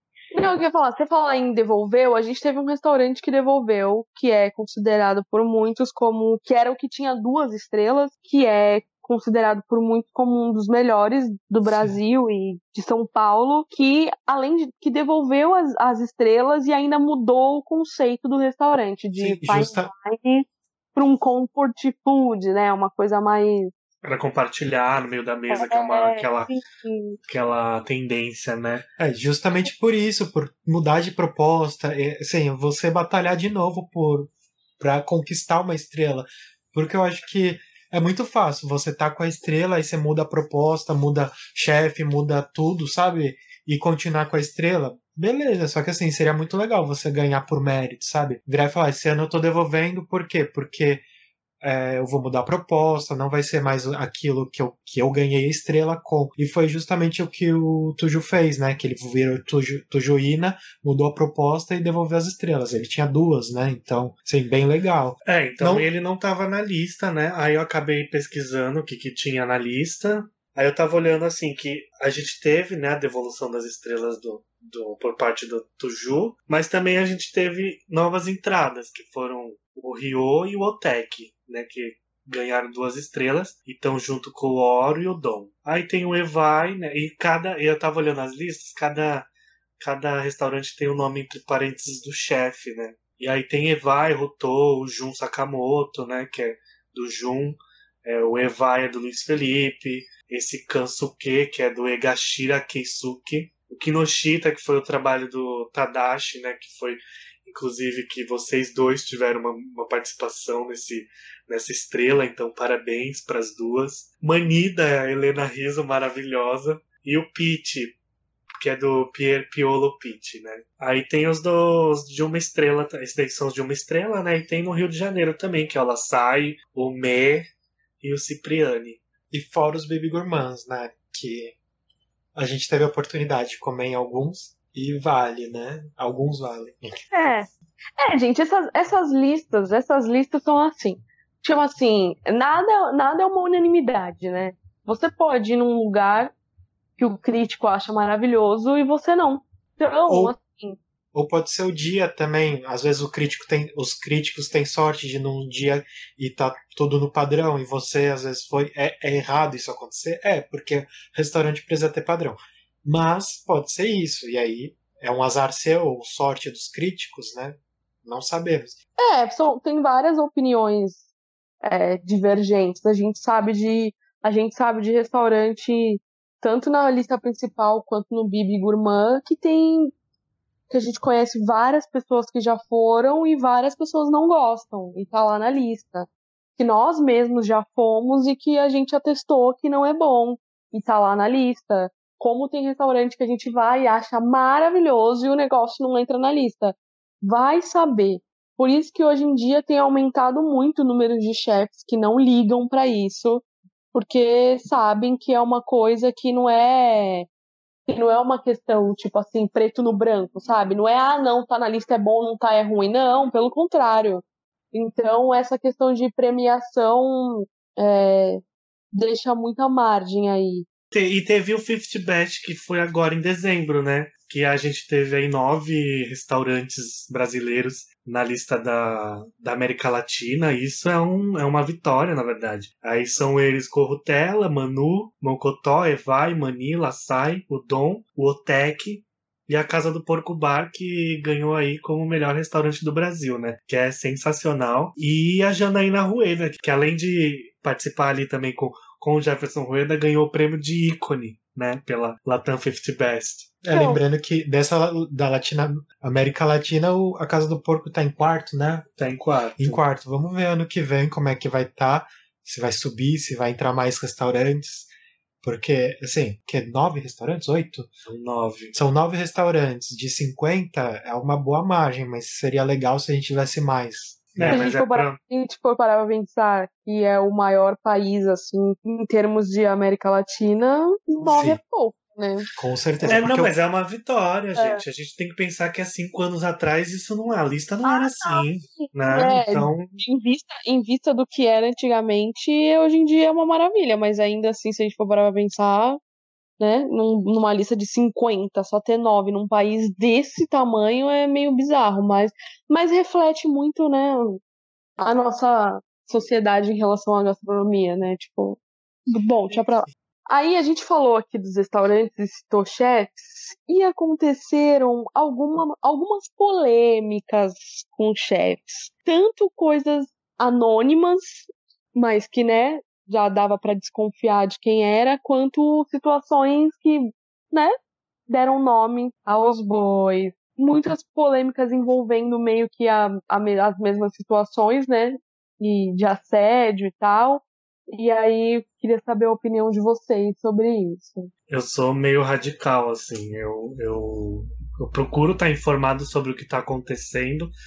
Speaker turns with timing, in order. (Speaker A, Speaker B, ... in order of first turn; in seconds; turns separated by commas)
Speaker A: 0.3-23.7, Speaker B: 19.2-19.9, Speaker C: 24.0-26.5, Speaker A: 25.5-27.2, Speaker C: 27.3-28.8, Speaker B: 29.0-51.0, Speaker B: 51.6-65.9, Speaker C: 65.2-89.3, Speaker C: 89.8-118.0, Speaker C: 118.6-127.4, Speaker C: 128.0-129.0, Speaker B: 129.3-131.5, Speaker B: 132.3-137.0, Speaker A: 137.1-137.5, Speaker A: 138.0-146.3, Speaker A: 147.0-150.8, Speaker B: 150.1-150.3, Speaker B: 151.1-168.8, Speaker A: 169.0-171.0, Speaker A: 171.6-179.9, Speaker A: 180.7-207.3, Speaker A: 207.9-218.4, Speaker A: 218.9-220.7, Speaker C: 220.9-253.6, Speaker B: 253.6-258.9, Speaker A: 253.7-254.0, Speaker C: 259.0-259.8, Speaker B: 259.6-264.9, Speaker B: 265.4-267.9, Speaker C: 268.1-268.7, Speaker B: 268.7-274.7, Speaker C: 274.4-275.2, Speaker A: 274.5-282.4, Speaker B: 282.6-283.5, Speaker C: 283.0-290.0, Speaker A: 284.6-284.8, Speaker A: 287.8-296.0, Speaker A: 296.6-304.4, Speaker A: 305.0-327.7, Speaker A: 328.3-341.3, Speaker C: 341.5-347.5